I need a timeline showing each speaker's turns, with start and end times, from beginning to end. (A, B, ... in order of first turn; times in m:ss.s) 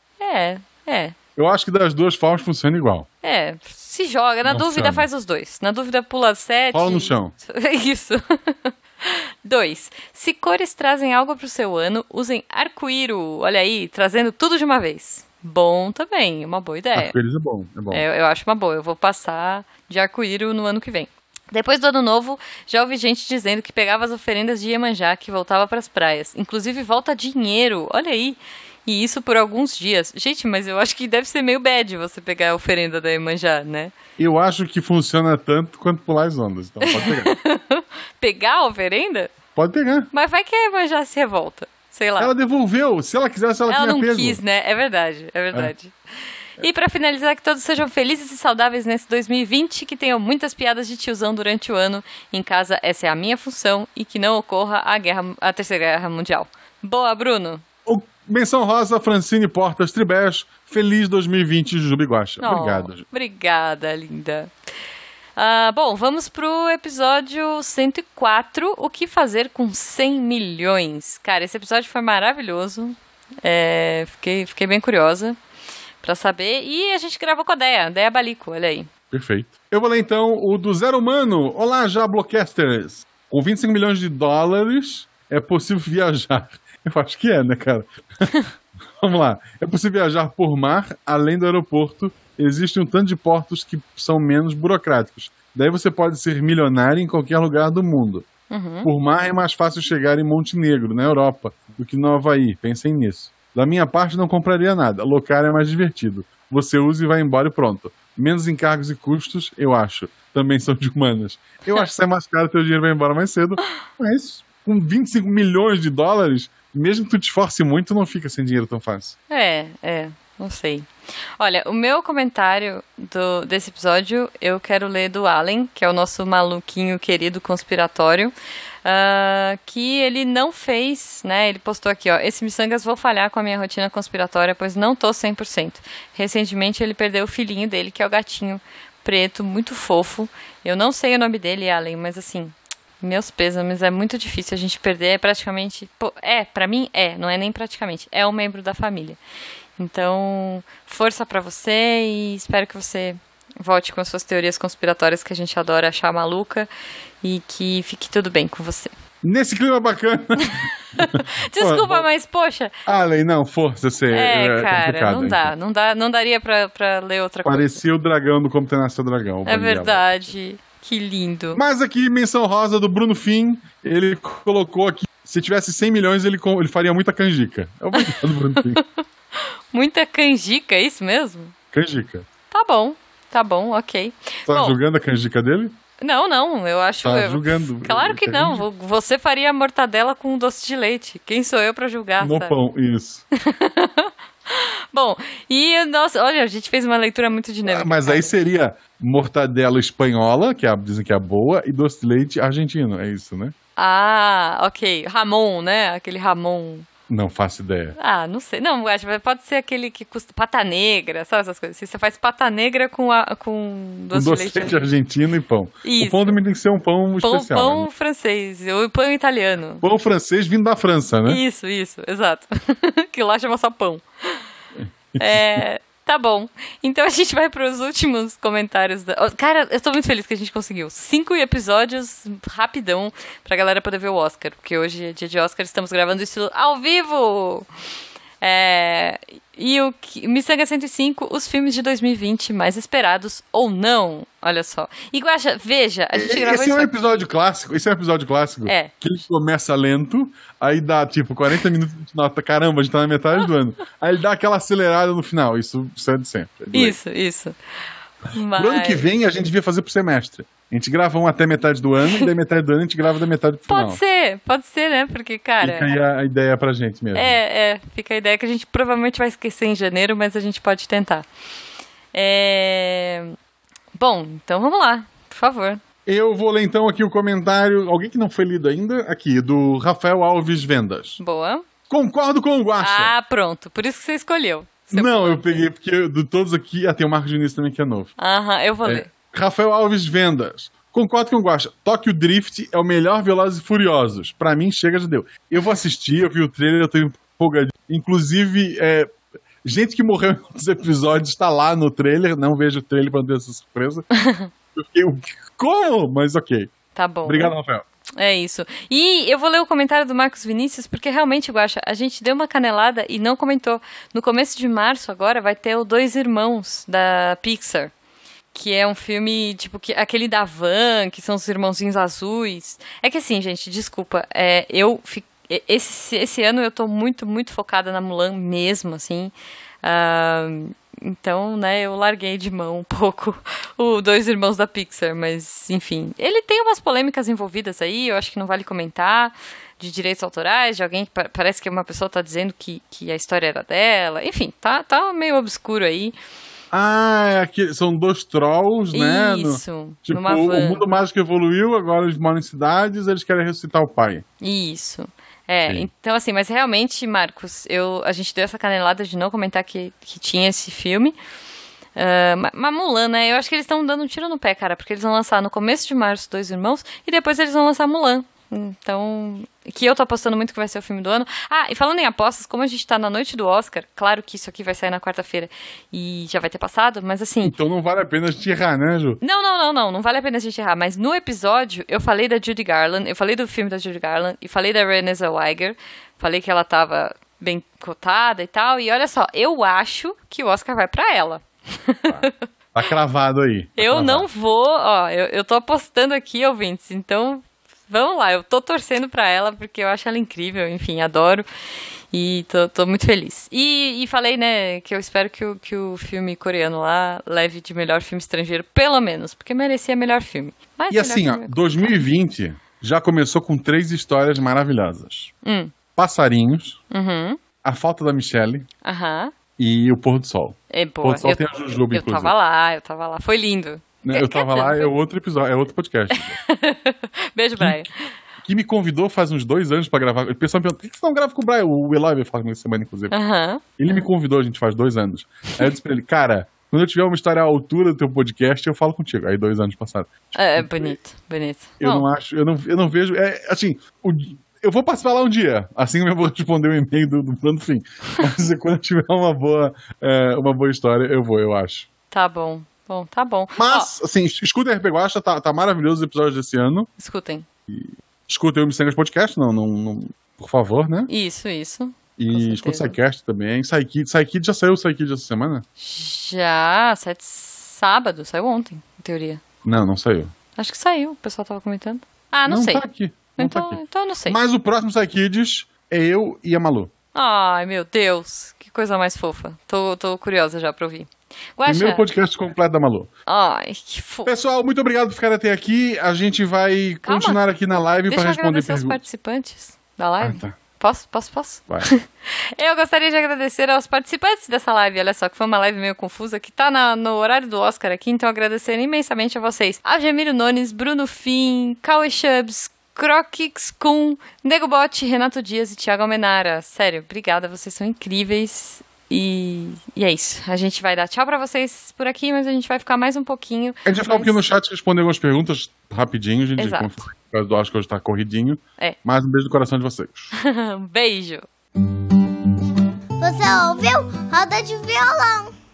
0:00.2-0:01.1 A
0:01.4-0:03.1 B
0:03.2-0:17.1 A
0:04.5-0:05.1 B
0:06.7-0:07.3 B
0:16.9-0:18.0 B
0:17.9-0:33.9 A
0:34.2-0:37.4 B
0:36.8-0:39.3 A
0:39.5-0:40.1 B
0:40.1-0:42.3 A
0:42.2-0:44.4 B
0:43.7-0:45.9 A
0:46.6-0:57.6 A
0:57.8-1:03.0 B
1:02.4-1:04.5 A
1:05.4-1:15.4 A
1:16.0-1:18.9 A
1:19.1-1:28.3 B
1:28.9-1:38.3 B
1:38.5-1:38.9 A
1:38.8-1:59.2 B
1:59.3-2:00.9 A
2:01.4-2:08.3 A
2:08.8-2:29.2 A
2:29.8-2:36.7 A
2:37.2-2:38.9 A
2:39.2-2:42.1 B
2:40.4-2:42.7 A
2:42.8-2:45.5 B
2:44.1-2:47.8 A
2:47.4-2:50.0 B
2:49.4-2:51.6 A
2:51.5-2:58.8 B
2:58.7-2:59.0 A
2:59.7-3:01.5 A
3:01.7-3:02.3 B
3:02.5-3:04.8 A
3:04.5-3:05.8 B
3:06.0-3:12.6 A
3:07.0-3:08.6 B
3:12.2-3:13.2 B
3:13.4-3:18.3 A
3:17.6-3:23.5 B
3:23.8-3:26.9 A
3:27.1-3:27.9 B
3:28.0-3:34.8 A
3:34.1-3:37.9 B
3:35.8-3:36.4 A
3:37.2-3:39.8 A
3:39.8-3:41.4 B
3:41.2-3:44.4 A
3:44.8-3:45.6 B
3:45.2-3:57.7 A
3:58.4-4:07.0 A
4:06.1-4:17.0 B
4:08.6-4:08.9 A
4:16.7-4:17.5 A
4:18.3-4:19.0 A
4:18.6-4:24.0 B
4:23.7-4:25.9 A
4:25.6-4:27.4 B
4:27.1-4:31.2 A
4:32.1-4:33.3 A
4:34.0-4:35.8 A
4:36.0-4:41.2 B
4:41.2-4:41.6 A
4:41.9-4:43.1 B
4:42.8-4:45.6 A
4:44.9-4:48.1 B
4:48.2-4:49.1 A
4:48.8-5:04.1 B
5:04.1-5:04.5 A
5:04.7-5:06.7 B
5:06.9-5:07.5 A
5:07.2-5:07.8 B
5:08.2-5:17.9 A
5:18.5-5:46.2 A
5:46.7-5:54.2 B
5:48.9-5:50.8 A
5:54.4-6:01.2 A
6:02.0-6:17.6 A
6:17.4-6:19.2 B
6:19.2-6:32.4 A
6:32.1-6:34.2 B
6:33.8-6:41.4 A
6:42.1-6:52.0 A
6:50.9-6:55.3 B
6:55.4-6:55.7 A
6:55.9-6:56.8 B
6:56.9-6:57.4 A
6:57.6-6:58.7 B
6:58.8-6:59.3 A
6:59.6-7:02.3 B
7:00.7-7:04.9 A
7:04.0-7:06.4 B
7:06.1-7:08.0 A
7:07.6-7:07.8 B
7:08.4-7:13.1 B
7:13.1-7:13.6 A
7:13.8-7:21.0 B
7:20.3-7:22.1 A
7:21.8-7:31.9 B
7:32.1-7:33.9 A
7:33.6-7:36.9 B
7:37.0-7:37.4 A
7:37.7-7:41.1 B
7:41.1-7:43.0 A
7:42.2-7:45.6 B
7:45.8-7:49.4 A
7:49.6-7:50.3 B
7:50.6-7:52.8 A
7:52.5-7:56.9 B
7:53.4-7:54.4 A
7:57.1-8:02.0 A
8:01.6-8:03.1 B
8:03.3-8:04.3 A
8:04.2-8:09.0 B
8:07.0-8:07.4 A
8:08.1-8:34.4 A
8:10.2-8:10.6 B
8:33.8-8:40.3 B
8:36.6-8:37.0 A
8:40.3-8:41.4 A
8:43.2-8:45.5 C